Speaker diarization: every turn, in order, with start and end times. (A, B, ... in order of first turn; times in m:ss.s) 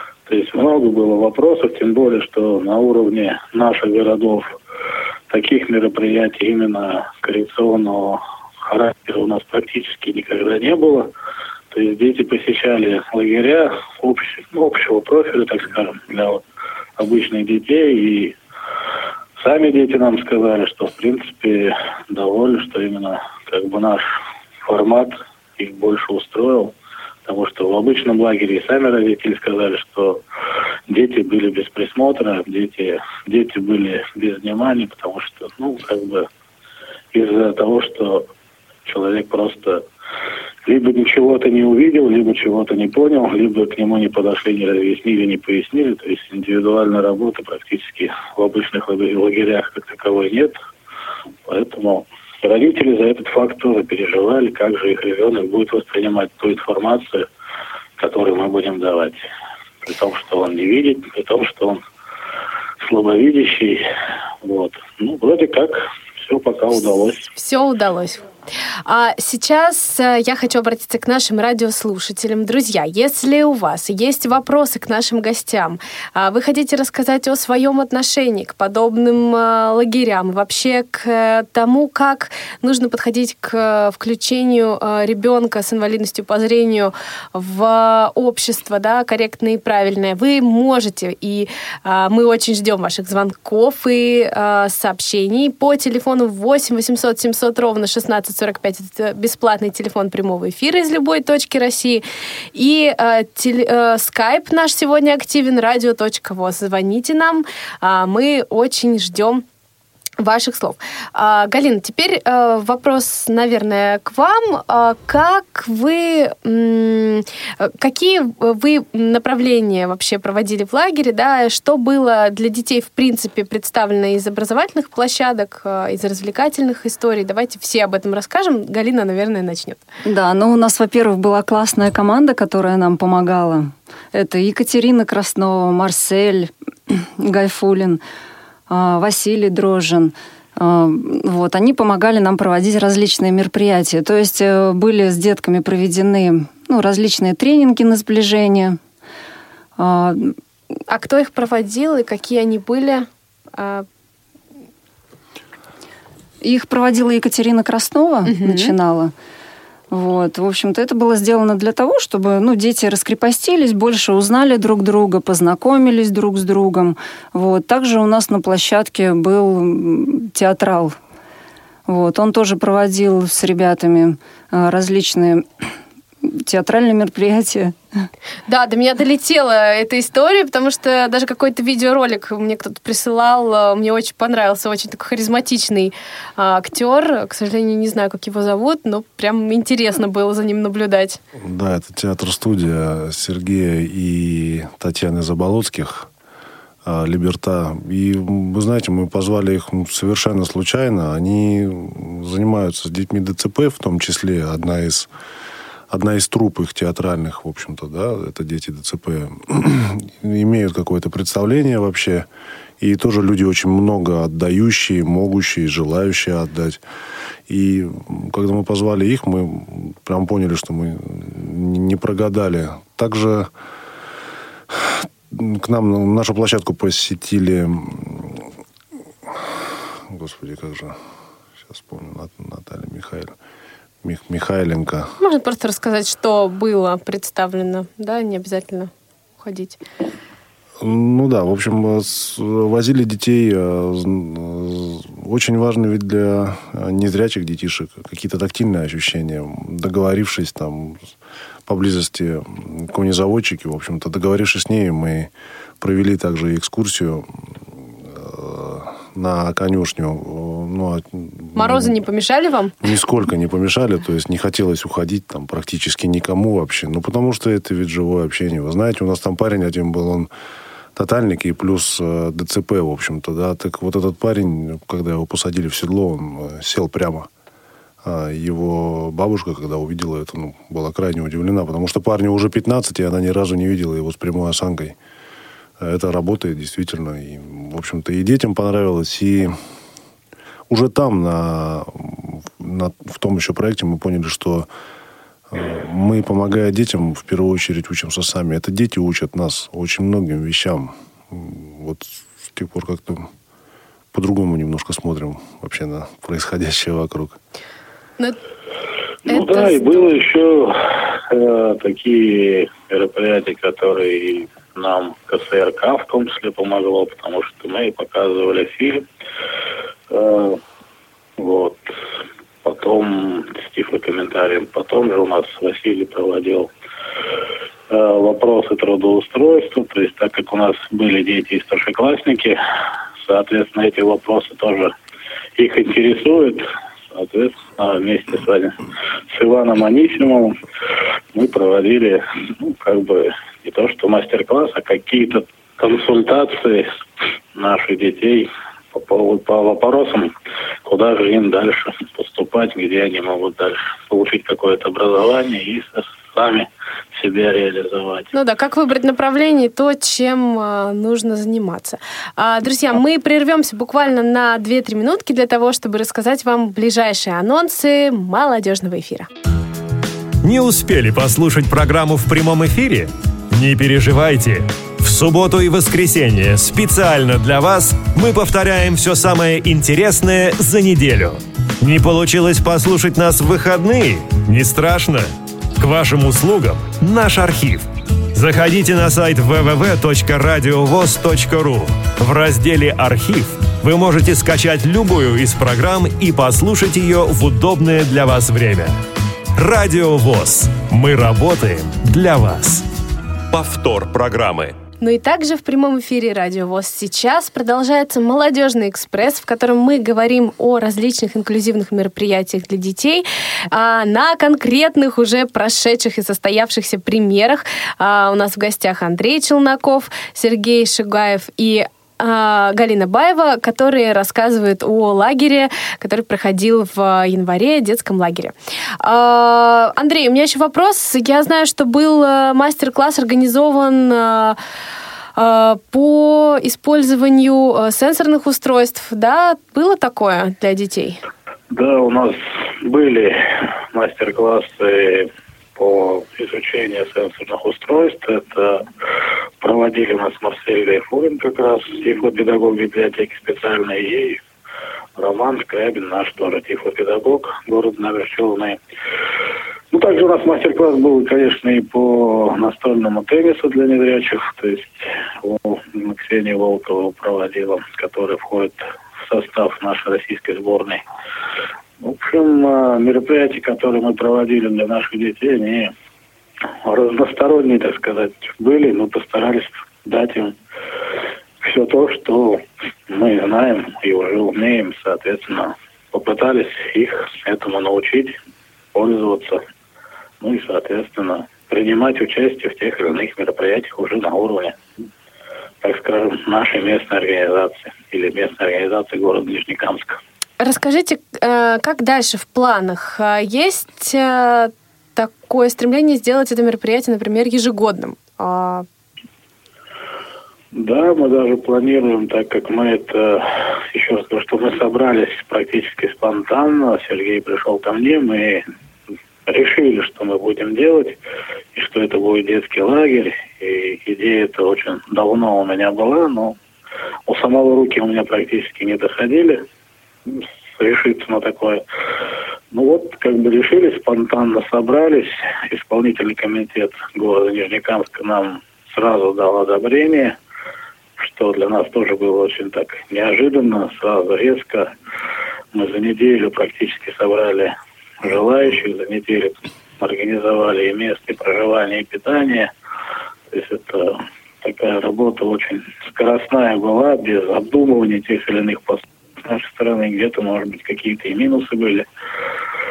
0:00.3-0:04.5 A
0:05.3-0:11.1 A
0:11.7-0:16.4 A
0:17.0-0:18.4 A
0:19.4-0:24.1 A
0:24.6-0:30.2 A
0:30.9-0:36.3 A
0:37.1-0:38.3 A
0:38.9-0:39.8 A
0:40.6-0:50.6 A
0:51.5-0:57.3 A
0:58.0-0:59.3 A
0:59.8-1:01.8 A
1:02.8-1:03.8 A
1:04.4-1:07.3 A
1:07.4-1:08.3 B
1:08.9-1:42.0 B
1:42.6-1:49.4 B
1:50.2-2:09.8 B
2:10.1-2:18.0 C
2:18.7-2:28.8 C
2:29.8-2:30.4 C
2:30.9-2:33.8 B
2:36.4-2:39.1 C
2:38.3-2:38.7 B
2:39.9-2:51.0 C
2:51.9-2:55.5 C
2:56.2-2:57.8 C
2:58.5-3:11.2 B
3:11.3-3:16.1 D
3:16.8-3:25.1 D
3:25.9-3:32.3 D
3:32.8-3:36.8 D
3:37.5-3:43.5 D
3:44.7-3:48.5 D
3:49.3-3:51.0 D
3:51.6-3:53.4 D
3:54.0-3:55.2 D
3:55.2-3:59.8 B
4:00.8-4:11.1 D
4:11.7-4:22.0 D
4:21.6-4:22.8 B
4:22.8-4:30.3 D
4:31.0-4:37.3 D
4:38.0-4:45.0 D
4:45.8-4:49.6 D
4:50.7-4:54.7 D
4:55.5-5:03.3 D
5:04.1-5:07.4 D
5:09.3-5:10.2 B
5:09.3-5:19.1 A
5:20.1-5:20.6 A
5:21.4-5:22.0 A
5:22.6-5:26.7 A
5:27.9-5:32.6 A
5:33.2-5:34.9 A
5:35.6-5:40.5 A
5:41.3-5:47.0 A
5:47.6-5:50.3 A
5:50.8-5:58.3 A
5:58.3-6:09.3 B
6:10.4-6:25.3 E
6:25.8-6:38.9 E
6:39.6-6:42.8 E
6:43.5-6:44.8 E
6:45.0-7:14.6 B
7:15.4-7:21.2 B
7:21.7-7:28.9 A
7:29.6-7:34.4 A
7:35.2-7:38.8 A
7:39.9-7:51.0 A
7:52.0-7:55.9 A
7:56.8-8:00.6 A
8:01.6-8:08.4 A
8:08.9-8:09.6 A
8:10.4-8:14.8 A
8:15.8-8:20.2 A
8:20.6-8:28.8 B
8:30.7-8:38.6 A
8:39.5-8:41.2 A
8:41.8-8:46.6 A
8:47.3-8:49.6 A
8:50.3-8:51.8 A
8:52.7-9:00.4 A
9:01.2-9:04.9 A
9:05.7-9:12.7 A
9:13.5-9:22.1 A